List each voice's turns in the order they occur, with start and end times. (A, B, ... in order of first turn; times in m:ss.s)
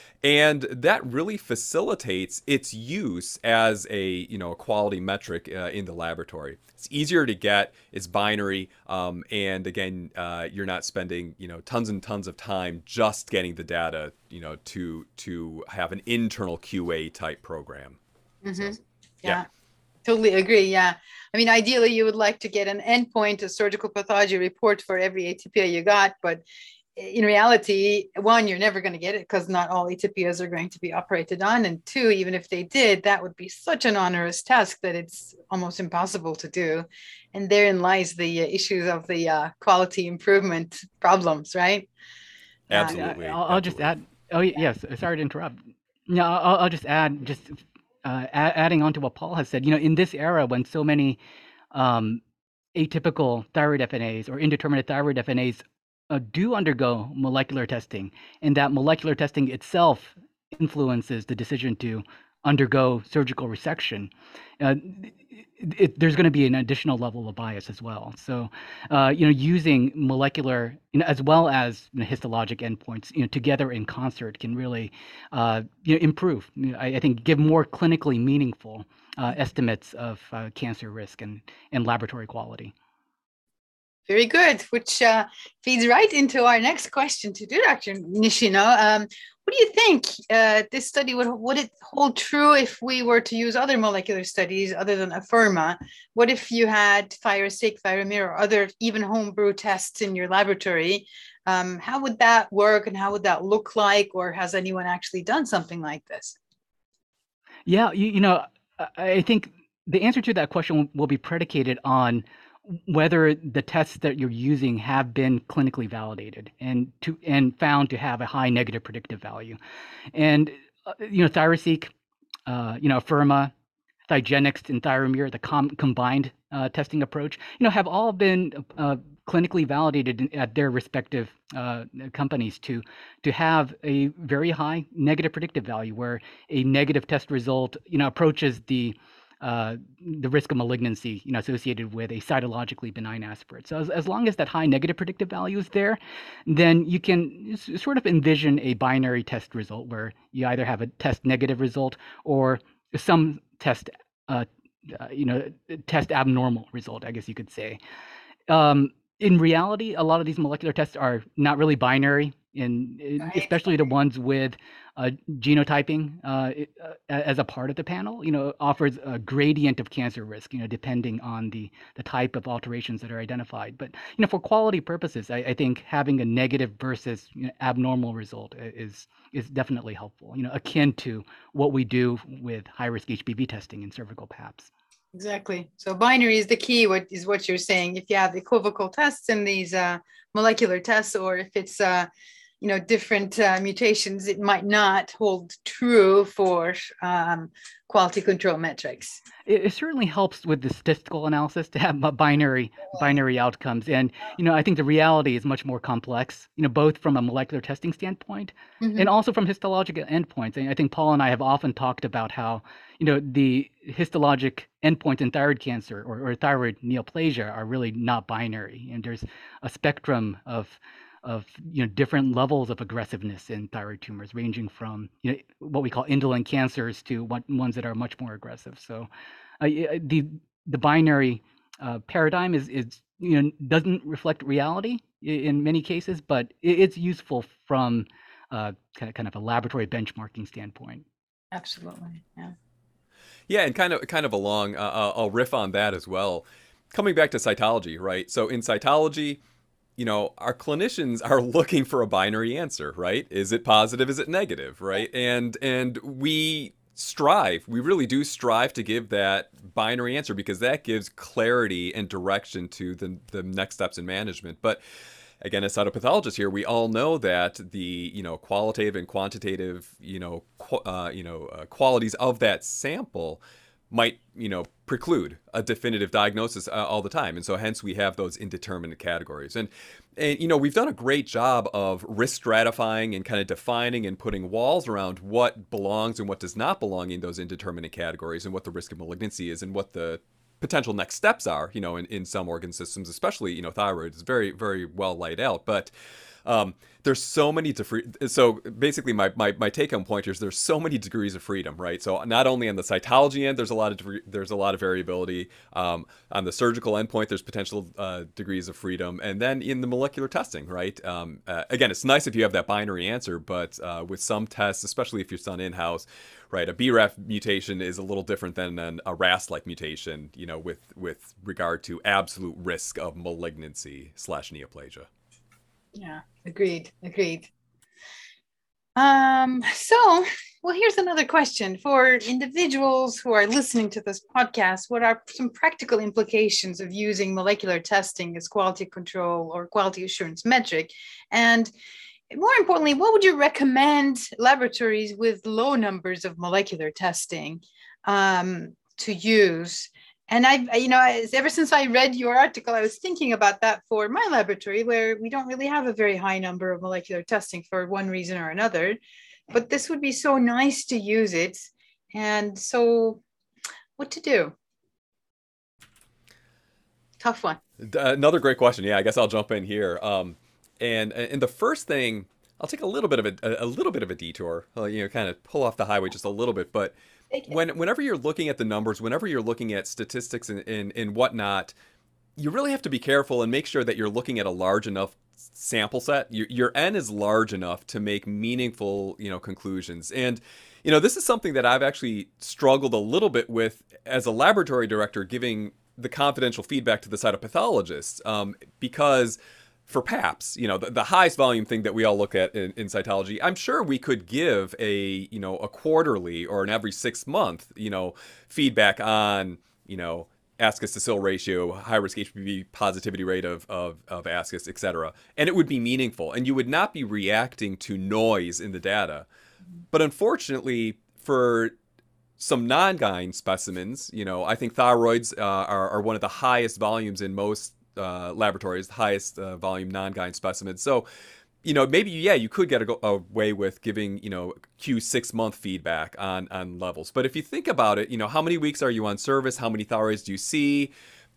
0:00.2-0:18.0 A
0:18.4-0:19.4 B
0:18.5-0:19.4 A
0:20.0-0:26.4 B
0:27.0-0:41.9 B
0:42.7-0:43.9 A
0:42.8-0:51.2 C
0:51.7-0:52.2 C
0:52.7-1:22.7 C
1:24.1-1:46.4 B
1:47.6-1:59.6 C
2:00.1-2:01.9 C
2:02.5-2:03.5 C
2:04.1-2:37.8 C
2:38.5-3:04.7 C
3:05.1-3:12.1 B
3:12.6-3:19.2 B
3:19.4-3:49.1 C
3:28.8-3:29.1 B
3:49.6-4:01.0 C
4:01.5-4:02.5 B
4:03.5-4:09.4 A
4:10.0-4:24.8 A
4:25.4-4:55.9 A
4:56.4-5:25.1 A
5:26.0-5:27.5 B
5:29.0-5:41.7 B
5:42.3-5:59.0 B
5:59.5-6:03.2 B
6:04.0-6:04.5 B
6:07.2-6:07.6 B
6:07.8-6:16.9 A
6:17.5-6:21.7 A
6:22.4-6:59.3 A
6:59.9-7:01.7 A
7:02.4-7:11.0 A
7:11.6-7:20.9 A